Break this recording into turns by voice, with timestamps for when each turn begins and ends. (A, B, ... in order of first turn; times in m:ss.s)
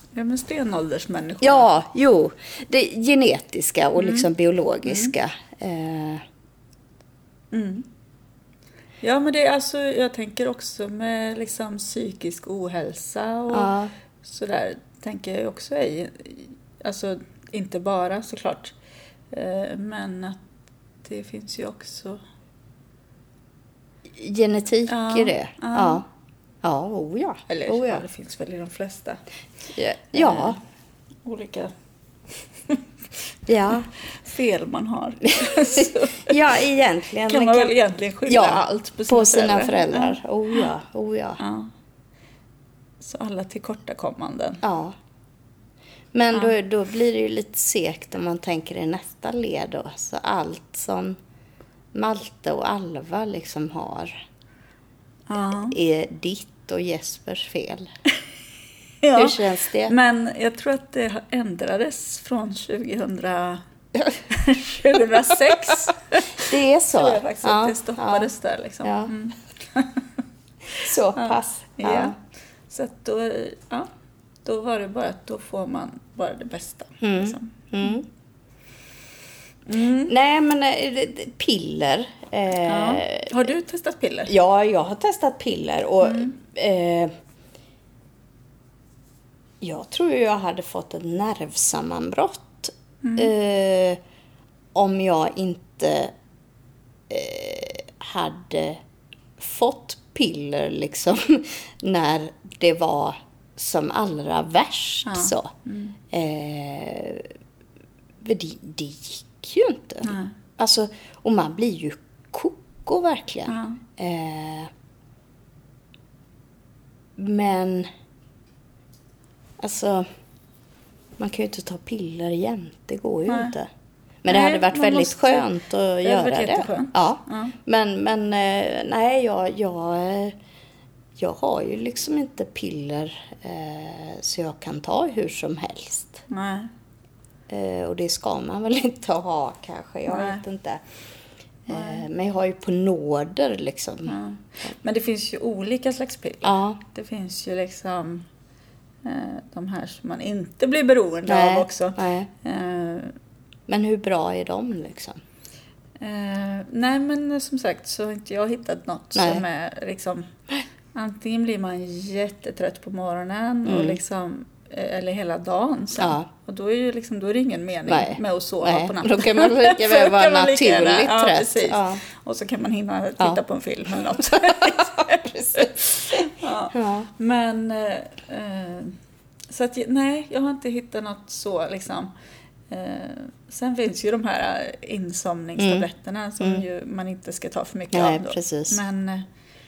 0:00.1-0:01.7 A
0:01.4-0:06.2 B
0:04.0-0:04.3 A
0:04.8-0:05.1 A
0:07.5-0:07.9 A
0:09.0-0:13.7 A
0:13.5-0:13.9 B
0:14.2-0:18.7 A
0:19.3-0:20.4 A
0:21.0-0:22.2 A
0:24.1-0:26.0 B
0:24.9-0:26.0 A
0:26.6-0:28.0 B
0:27.5-0:29.2 A
0:29.7-0:30.6 B
0:30.1-0:30.6 A
0:31.2-0:31.7 A
0:33.5-0:33.9 B
0:34.1-0:36.5 A
0:35.4-0:37.8 B
0:37.3-0:40.7 A
0:38.3-0:41.4 B
0:41.4-0:41.7 A
0:43.0-0:44.6 A
0:44.6-0:45.0 B
0:46.1-0:51.2 B
0:51.9-0:54.2 B
0:55.3-0:55.8 A
0:55.7-0:57.9 B
0:59.0-1:03.6 A
0:59.2-1:00.0 B
1:04.3-1:10.0 A
1:06.4-1:08.3 B
1:08.8-1:09.1 B
1:10.8-1:12.2 B
1:11.1-1:12.2 A
1:12.7-1:13.9 A
1:14.4-1:18.0 A
1:17.0-1:18.1 B
1:19.7-1:20.1 A
1:20.1-1:23.4 B
1:22.6-1:24.3 A
1:24.3-1:27.1 B
1:26.0-1:26.4 A
1:29.6-1:34.0 B
1:33.0-1:33.3 A
1:34.7-1:36.1 B
1:37.1-1:38.8 B
1:39.4-1:45.5 B
1:45.0-1:46.0 A
1:46.1-1:47.3 B
1:48.2-1:54.7 B
1:50.0-1:50.3 A
1:53.5-1:53.8 A
1:57.2-1:57.9 B
1:59.6-2:00.1 B
2:01.2-2:03.7 B
2:03.3-2:03.6 A
2:04.2-2:10.4 B
2:04.3-2:05.5 A
2:06.0-2:07.6 A
2:11.2-2:16.2 B
2:16.3-2:16.7 A
2:17.5-2:20.8 B
2:20.1-2:20.4 A
2:21.7-2:24.2 B
2:21.7-2:22.0 A
2:24.1-2:28.3 A
2:26.4-2:26.8 B
2:29.0-2:33.2 A
2:31.3-2:32.3 B
2:33.7-2:35.2 B
2:36.0-2:40.3 A
2:39.2-2:39.4 B
2:40.9-2:59.0 A
2:43.6-2:44.0 B
2:46.0-2:46.3 B
2:47.9-2:52.0 B
2:54.2-2:57.1 B
2:59.5-3:02.1 A
3:02.7-3:09.3 A
3:05.6-3:05.9 B
3:07.9-3:08.8 B